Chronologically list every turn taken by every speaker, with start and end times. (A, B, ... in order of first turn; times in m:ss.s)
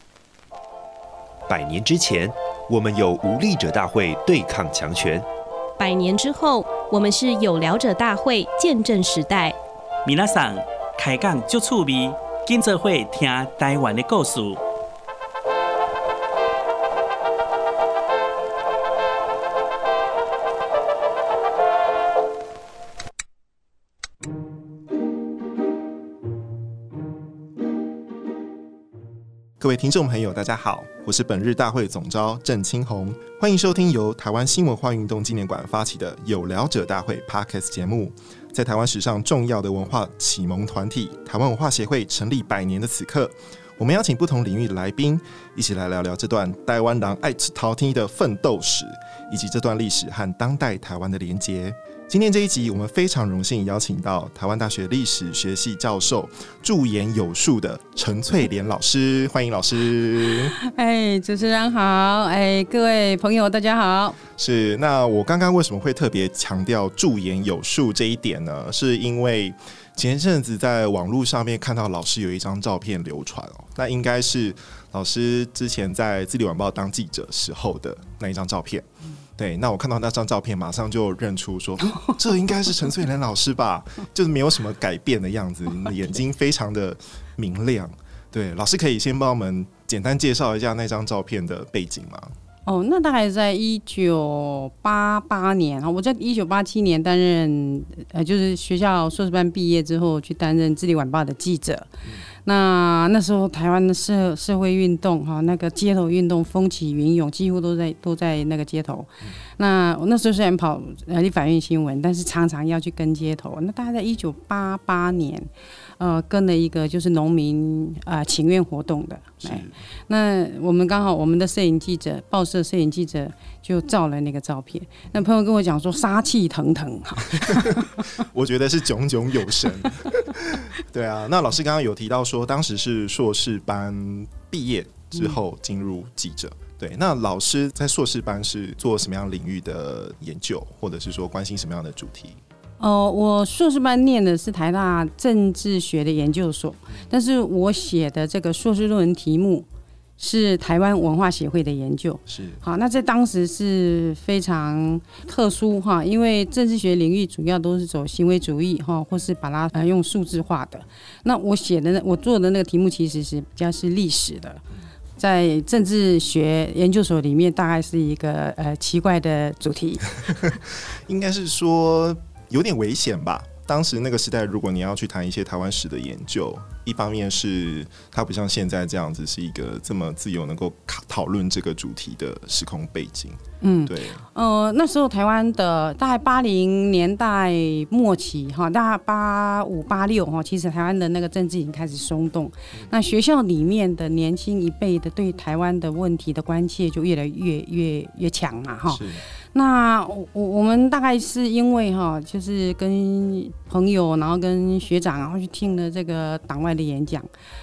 0:01.5-0:05.2 A
0:05.8-0:09.6 B
0:10.0-0:14.6 C
0:29.6-1:00.5 D
1:00.4-1:04.2 E
1:04.3-1:18.8 D
1:19.4-1:32.3 D
1:32.6-1:55.5 E
1:56.0-2:08.0 E
1:59.4-1:59.8 D
2:07.3-2:22.4 D
2:22.8-2:29.6 E
2:30.2-2:44.6 E
2:32.3-2:32.6 D
2:45.2-2:50.2 E
2:50.2-3:04.2 D
3:03.6-3:27.3 E
3:18.9-3:19.2 D